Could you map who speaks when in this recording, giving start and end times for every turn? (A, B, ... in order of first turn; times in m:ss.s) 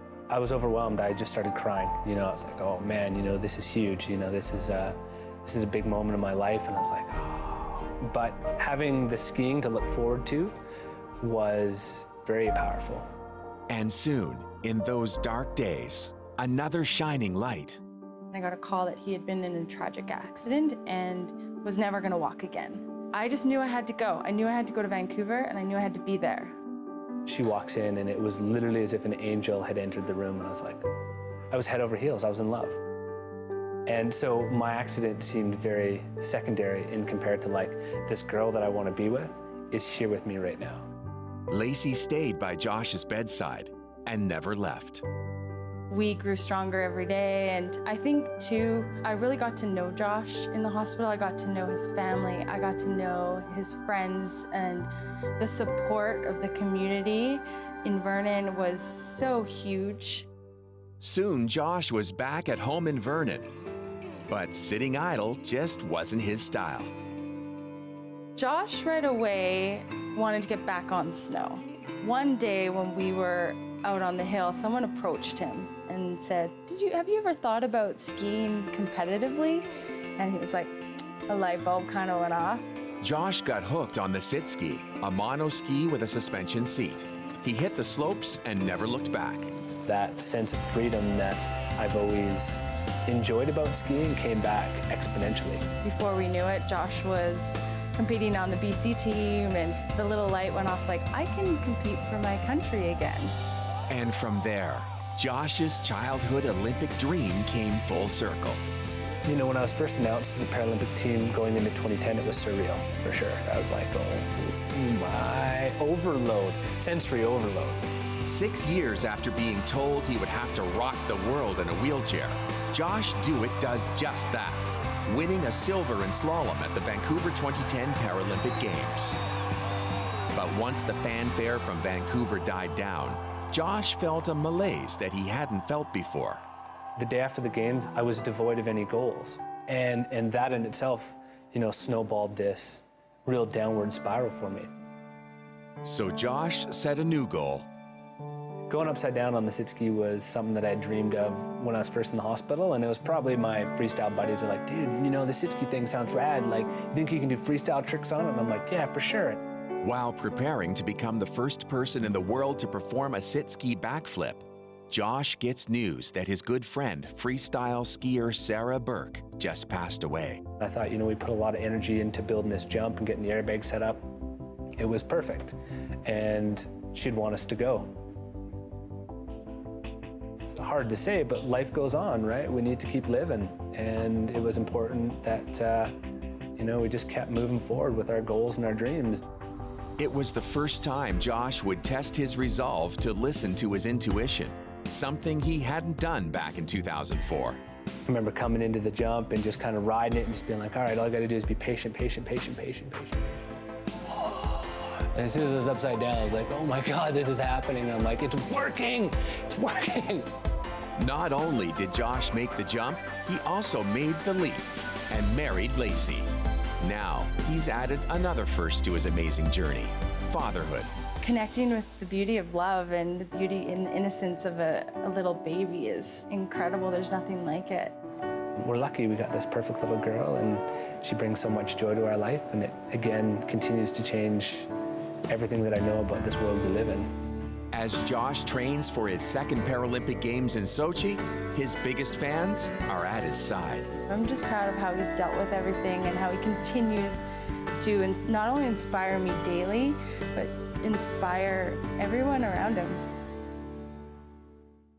0:00.3-0:10.5 A
0:11.2-0:13.0 A
0:13.7-0:17.8 B
0:18.3-0:26.5 C
0:27.2-0:30.8 A
0:31.5-0:32.8 A
0:33.9-0:40.9 A
0:41.5-0:45.0 B
0:45.9-1:00.3 C
1:01.0-1:03.5 B
1:04.3-1:06.9 B
1:08.4-1:20.7 C
1:21.3-1:22.6 C
1:23.0-1:29.5 B
1:29.8-1:35.6 A
1:35.8-1:43.3 C
1:43.9-1:48.6 B
1:49.2-1:57.8 A
1:58.2-2:09.2 B
2:10.3-2:16.4 B
2:17.0-2:24.7 A
2:25.8-2:27.7 B
2:28.7-2:39.4 A
2:39.8-2:50.4 B
2:50.6-2:54.0 A
2:54.8-2:57.9 A
3:00.4-3:06.0 A
3:06.6-3:09.2 A
3:10.0-3:17.6 B
3:18.1-3:23.4 A
3:24.3-3:30.3 A
3:31.0-3:40.9 B
3:41.2-3:48.0 C
3:48.6-3:54.7 A
3:55.3-3:57.1 A
3:57.7-4:03.9 B
4:04.1-4:07.2 C
4:07.8-4:13.0 C